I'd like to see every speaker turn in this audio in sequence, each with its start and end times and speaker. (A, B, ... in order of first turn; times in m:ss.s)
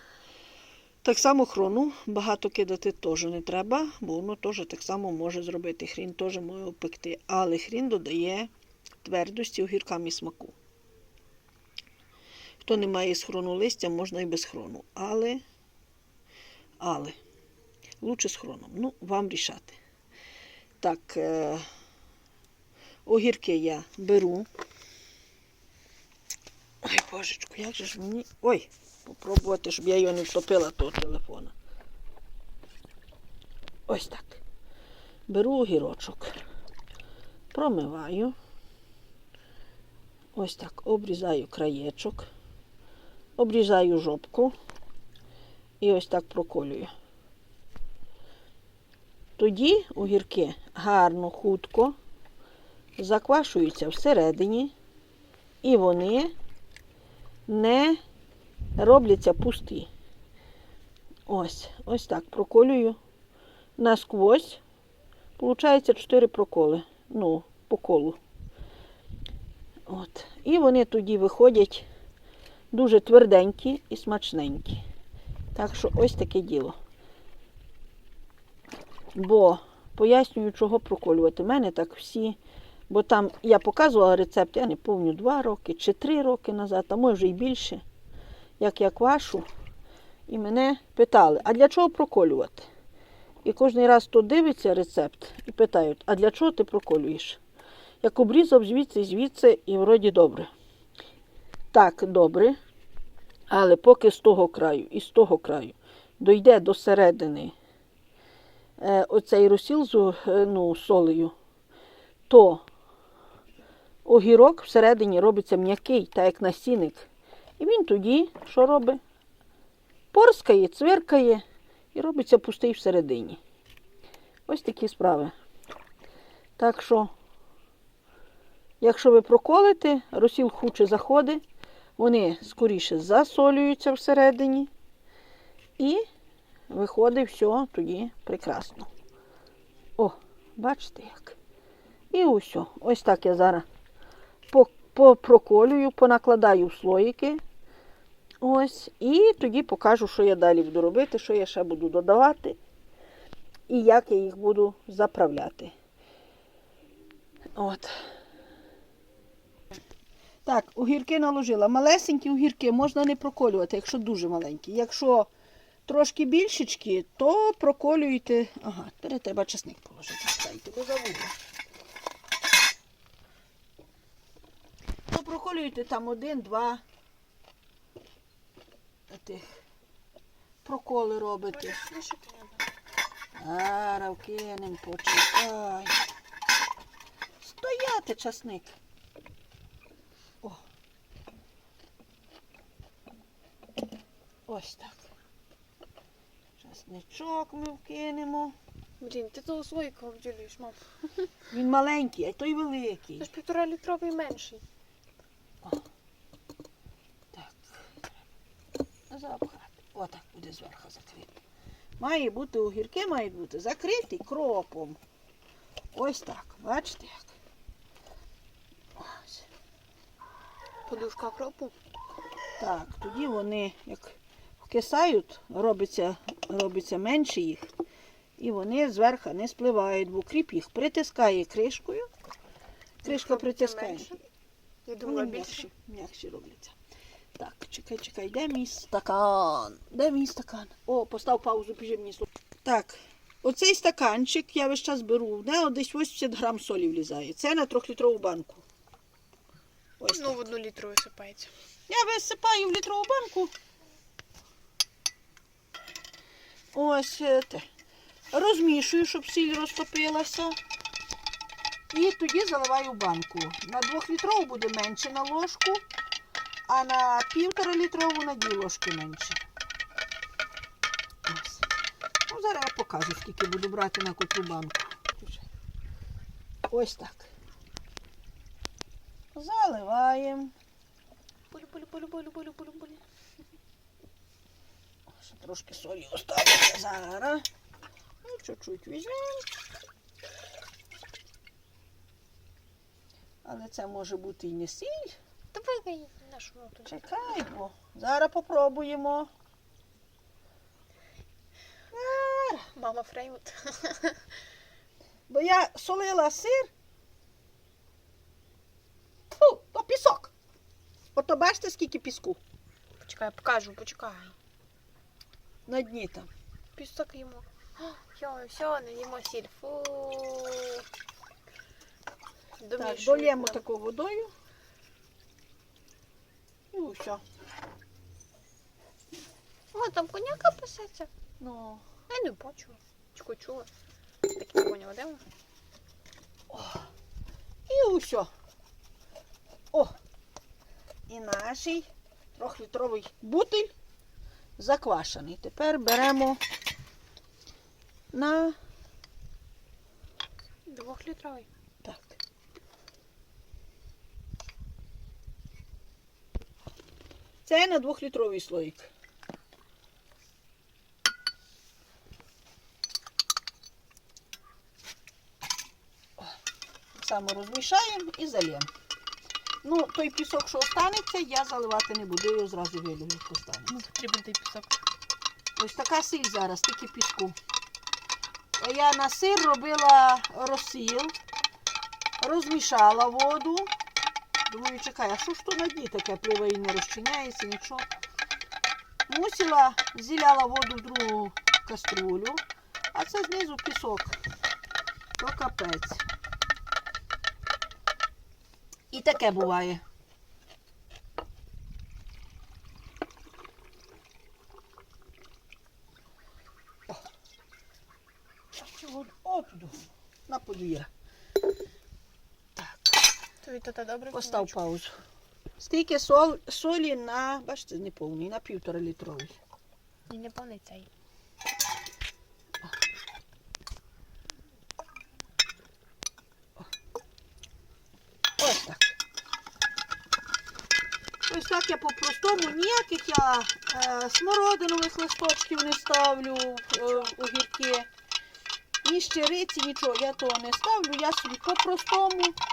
0:01.0-0:08.5 A
0:09.0-0:10.6 A
0:12.6-0:15.4 A
0:16.8-0:17.2 A
0:18.0-0:19.8 A
0:20.8-0:21.7 A
0:23.0-0:24.5 A
0:26.8-0:31.5 A
0:33.9-0:34.4 A
0:35.3-0:36.3 A
0:37.5-0:38.3 A
0:40.3-0:42.3 A
0:43.4-0:44.5 A
0:45.8-0:46.9 A
0:49.4-0:52.0 A
0:53.0-0:54.7 A
0:55.6-0:56.3 A
0:57.5-0:58.0 A
0:58.8-0:59.9 A
1:01.3-1:03.0 A
1:03.8-1:04.6 A
1:05.4-1:08.2 A
1:09.9-1:11.8 A
1:12.7-1:14.8 A
1:15.5-1:16.8 A
1:19.1-1:22.4 A
1:22.9-1:27.8 A
1:28.6-1:29.5 A
1:30.3-1:32.7 A
1:33.4-1:37.4 A
1:38.0-1:40.5 A
1:41.7-1:42.6 A
1:43.5-1:47.5 A
1:48.8-1:51.3 A
1:52.3-1:52.6 A
1:54.0-1:57.1 A
1:57.6-1:59.0 A
2:00.1-2:01.4 A
2:01.9-2:03.4 A
2:04.5-2:05.3 A
2:06.6-2:07.1 A
2:08.8-2:11.4 A
2:12.0-2:14.7 A
2:15.8-2:16.0 A
2:16.7-2:18.9 A
2:20.0-2:21.4 A
2:22.1-2:23.6 A
2:24.5-2:27.4 A
2:28.4-2:32.6 A
2:33.7-2:35.7 A
2:37.5-2:37.9 A
2:40.4-2:45.3 A
2:45.9-2:51.3 A
2:55.1-2:56.8 A
2:59.1-2:59.6 A
3:00.6-3:01.8 A
3:01.5-3:02.6 B
3:03.4-3:06.0 A
3:07.4-3:08.8 A
3:14.5-3:15.0 A
3:16.6-3:18.5 A
3:19.0-3:21.3 B
3:21.5-3:23.3 A
3:23.2-3:24.6 B
3:27.3-3:28.1 A
3:29.1-3:31.4 A
3:32.0-3:35.0 A
3:35.9-3:37.3 A
3:39.0-3:39.5 A
3:40.8-3:41.7 B
3:42.6-3:47.7 A
3:48.4-3:52.1 A
3:53.0-3:54.2 B
3:53.0-3:54.1 A
3:54.8-3:55.7 B
3:55.0-3:56.8 A
3:57.4-4:08.6 A
4:10.0-4:10.5 A
4:10.1-4:11.5 B
4:11.9-4:13.5 A
4:16.7-4:17.6 A
4:18.3-4:20.6 A
4:21.9-4:25.8 A
4:26.7-4:29.4 A
4:31.2-4:31.7 A
4:32.3-4:35.4 A
4:36.7-4:37.3 A
4:39.3-4:40.5 A
4:41.5-4:43.0 B
4:45.1-4:47.4 A
4:48.2-4:49.4 A
4:53.4-4:55.2 A
4:55.5-4:56.9 B
4:56.8-4:59.3 A
5:01.9-5:02.7 A
5:02.7-5:04.2 B
5:05.3-5:06.7 A
5:09.3-5:10.3 A
5:11.1-5:12.4 A
5:13.0-5:14.4 B
5:15.6-5:16.3 A
5:16.8-5:20.8 B
5:22.6-5:23.6 B
5:22.8-5:24.3 A
5:26.7-5:27.2 A
5:29.7-5:31.1 B
5:31.4-5:31.8 A
5:32.1-5:33.7 B
5:34.2-5:35.2 B
5:36.5-5:36.9 A
5:37.7-5:38.3 A
5:41.1-5:43.7 A
5:44.6-5:46.4 A
5:48.1-5:48.6 A
5:50.7-5:51.5 B
5:51.8-5:52.2 A
5:57.4-5:58.9 A
6:06.9-6:08.7 A
6:09.6-6:13.8 A
6:13.7-6:14.8 B
6:15.6-6:17.4 A
6:18.6-6:21.2 A
6:22.2-6:23.7 A
6:24.5-6:27.9 A
6:29.1-6:34.2 A
6:35.2-6:36.0 A
6:38.9-6:39.8 A
6:48.5-6:50.9 A
6:52.6-6:53.0 A
6:53.4-6:54.6 B
6:54.1-6:55.0 A
6:55.6-6:59.4 A
7:00.1-7:00.9 B
7:08.4-7:09.0 A
7:11.2-7:17.9 A
7:18.8-7:22.4 A